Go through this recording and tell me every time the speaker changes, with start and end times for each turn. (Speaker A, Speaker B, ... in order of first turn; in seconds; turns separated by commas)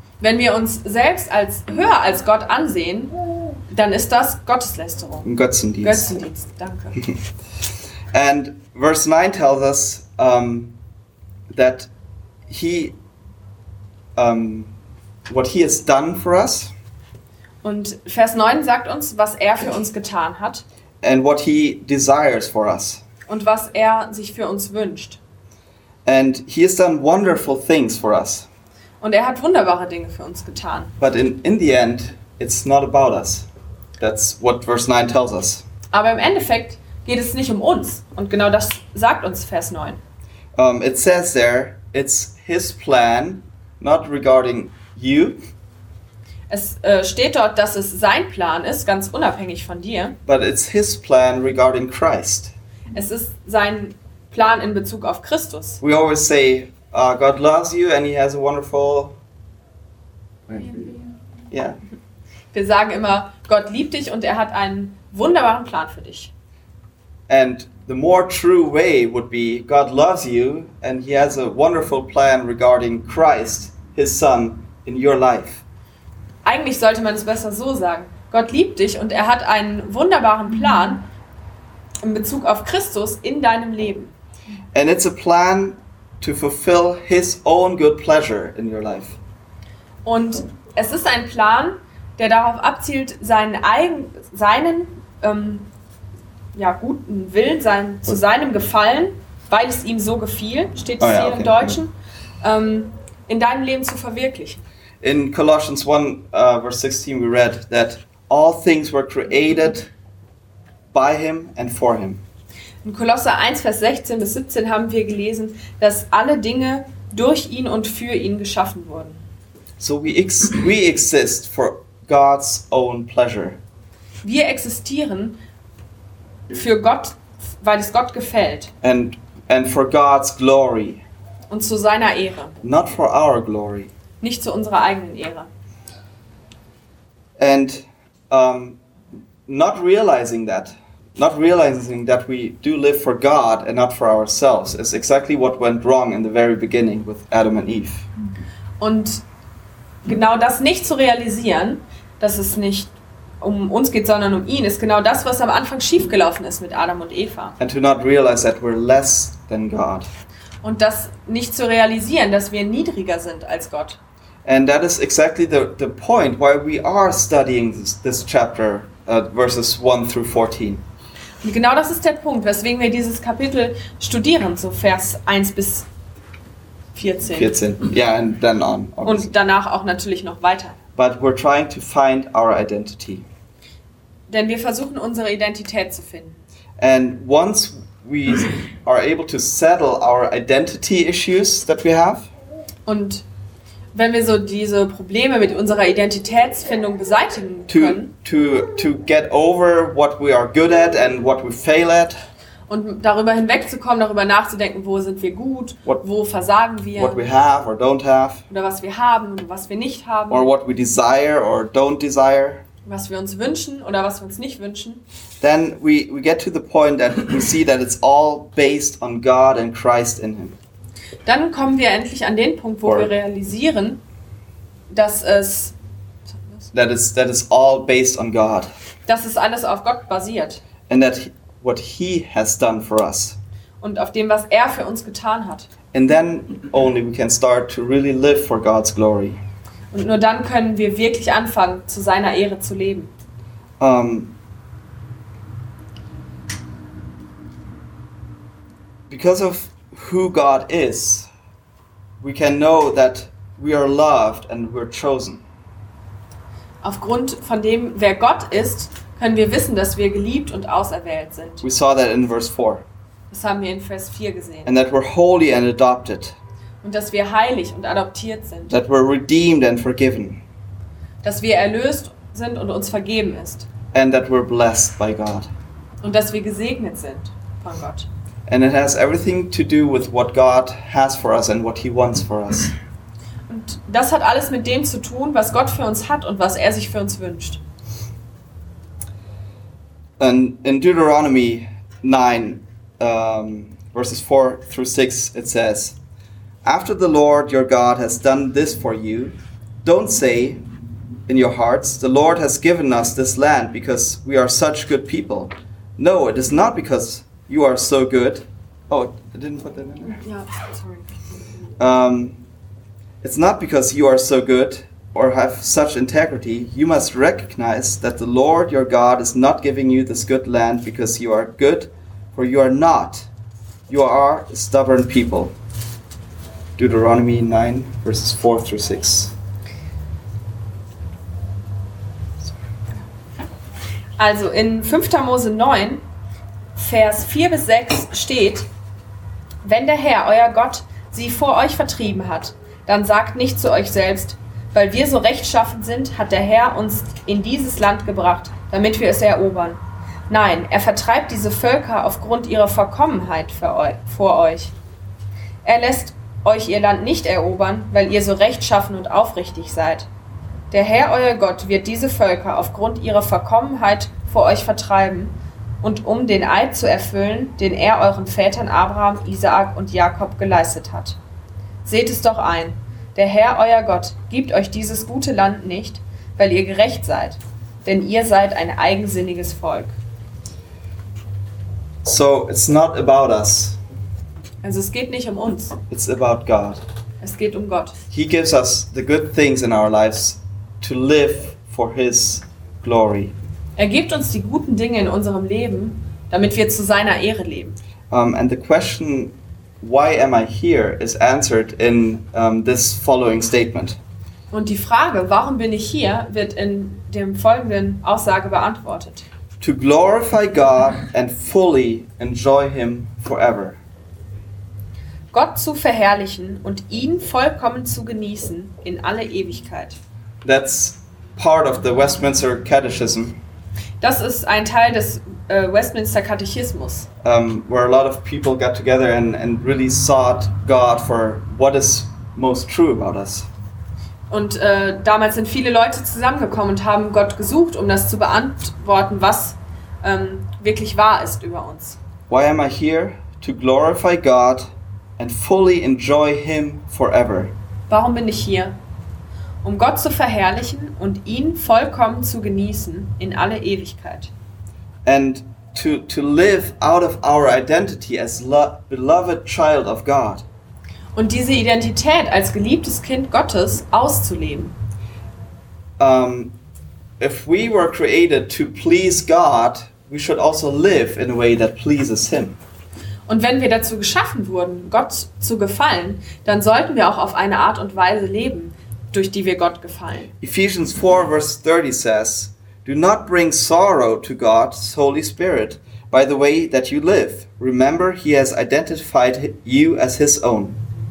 Speaker A: 0.2-3.1, Speaker A: 3.7-5.2, Speaker B: 5.2-6.1, Speaker A: 5.8-7.0, Speaker B: 8.1-10.8, Speaker B: 11.5-11.9, Speaker B: 12.5-12.9, Speaker B: 14.2-14.7, Speaker B: 15.3-16.7, Speaker A: 17.6-20.6, Speaker B: 21.0-23.0, Speaker A: 23.3-25.2, Speaker B: 26.0-28.5, Speaker A: 29.0-30.9, Speaker B: 31.0-33.5, Speaker B: 34.0-35.6, Speaker A: 35.9-40.0, Speaker B: 40.5-45.4, Speaker A: 46.5-50.2, Speaker B: 50.2-52.5, Speaker A: 52.9-55.8, Speaker B: 55.8-59.1, Speaker B: 60.5-61.0, Speaker B: 61.5-61.8, Speaker A: 62.5-66.3, Speaker B: 67.3-75.6, Speaker A: 76.4-81.1, Speaker A: 82.0-84.1, Speaker B: 84.7-89.2, Speaker A: 90.0-95.7, Speaker A: 96.5-104.6, Speaker B: 101.0-101.8, Speaker B: 105.0-109.9, Speaker B: 110.9-112.2, Speaker A: 112.8-119.2, Speaker B: 119.8-123.6, Speaker A: 124.2-125.4, Speaker A: 126.5-128.7, Speaker B: 128.8-131.0, Speaker A: 131.5-132.6, Speaker B: 132.6-133.9, Speaker A: 134.2-135.5, Speaker B: 137.4-138.8, Speaker B: 139.5-148.1, Speaker A: 148.8-149.2, Speaker A: 150.0-157.6, Speaker B: 157.6-160.1, Speaker A: 160.6-164.0, Speaker B: 164.4-170.8, Speaker A: 171.4-175.9, Speaker A: 176.9-177.6, Speaker B: 177.3-179.3, Speaker A: 179.0-180.8, Speaker B: 180.9-183.2, Speaker A: 184.3-186.4, Speaker B: 186.8-192.3, Speaker A: 192.8-193.2, Speaker A: 193.9-198.1, Speaker B: 197.7-202.2, Speaker A: 202.7-207.2, Speaker B: 206.9-208.4, Speaker A: 208.5-210.5, Speaker B: 210.3-212.6, Speaker A: 212.8-215.0, Speaker B: 215.4-220.6, Speaker A: 221.2-224.0, Speaker B: 222.8-223.1, Speaker A: 224.9-225.7, Speaker B: 226.7-228.7, Speaker A: 229.1-230.6, Speaker B: 230.9-233.4, Speaker A: 233.8-235.7, Speaker B: 235.9-239.4, Speaker A: 239.9-243.1, Speaker B: 243.8-244.3, Speaker B: 249.1-251.3, Speaker B: 252.2-255.4, Speaker A: 256.8-261.6, Speaker B: 261.6-262.8, Speaker A: 263.3-264.7, Speaker B: 264.6-266.4, Speaker A: 266.8-268.8, Speaker B: 268.7-270.4, Speaker A: 271.2-273.6, Speaker B: 273.9-275.5, Speaker A: 276.0-278.1, Speaker B: 278.5-282.7, Speaker A: 283.5-287.6, Speaker B: 290.2-296.0, Speaker B: 296.6-300.6, Speaker B: 301.3-310.2, Speaker A: 310.1-311.1, Speaker B: 311.8-312.4, Speaker B: 313.2-323.3, Speaker B: 323.9-325.5, Speaker B: 326.8-329.3, Speaker A: 334.2-336.0, Speaker A: 336.8-338.7, Speaker A: 339.6-354.7, Speaker A: 355.6-360.1, Speaker A: 360.7-371.2, Speaker A: 371.8-379.9, Speaker B: 382.0-383.8, Speaker A: 384.6-385.8, Speaker B: 385.9-386.8, Speaker A: 387.2-388.0, Speaker B: 388.1-393.3, Speaker A: 393.8-397.8, Speaker B: 398.1-404.0, Speaker A: 404.5-409.2, Speaker B: 409.6-413.8, Speaker A: 415.3-420.0, Speaker B: 420.4-423.4, Speaker A: 424.0-427.1, Speaker B: 427.2-433.5, Speaker A: 434.3-442.0, Speaker B: 442.3-447.5, Speaker A: 447.9-448.8, Speaker A: 449.6-454.3, Speaker B: 455.0-460.4, Speaker A: 461.1-464.7, Speaker B: 466.0-466.6, Speaker B: 467.2-472.6, Speaker A: 473.3-480.3, Speaker B: 480.4-490.8